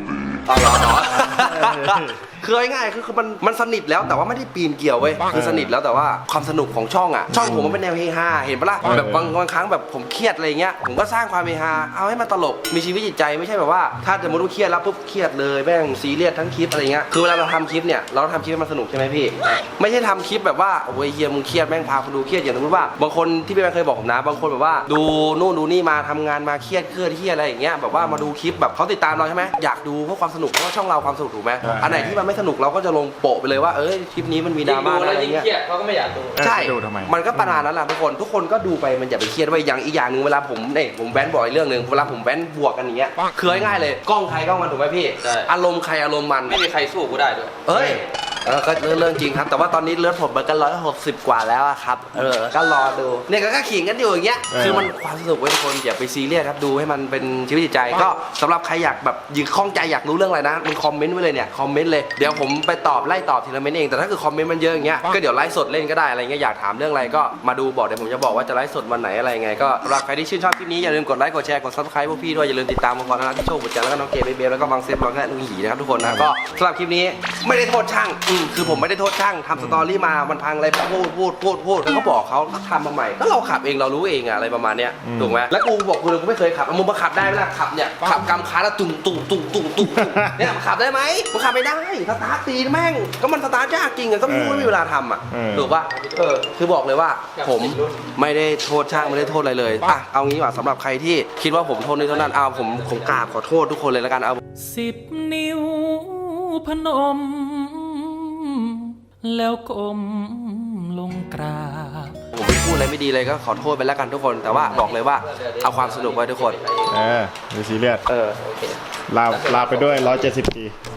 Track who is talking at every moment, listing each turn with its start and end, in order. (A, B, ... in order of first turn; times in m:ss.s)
0:00.4-0:35.4 A
0:01.4-0:02.1 B
0:05.3-0:05.7 B
0:08.8-0:09.2 B
0:31.6-0:32.2 B
0:34.6-0:36.5 C
0:36.4-0:37.1 B
0:36.4-0:46.6 A
0:45.2-0:45.5 C
0:46.4-0:47.6 C
0:47.6-1:44.4 A
0:47.7-0:48.0 B
0:54.5-0:54.9 B
1:16.0-1:16.3 B
1:25.0-1:25.4 B
1:29.8-1:30.5 B
1:34.2-1:34.8 B
1:35.3-1:35.7 B
1:35.6-1:36.4 C
1:37.3-1:38.1 C
1:38.9-1:39.4 C
1:41.5-1:43.4 C
1:44.6-1:52.2 D
1:52.3-1:56.6 A
1:54.7-1:57.2 C
1:56.9-1:58.0 B
1:58.1-2:00.3 C
1:59.1-2:00.7 B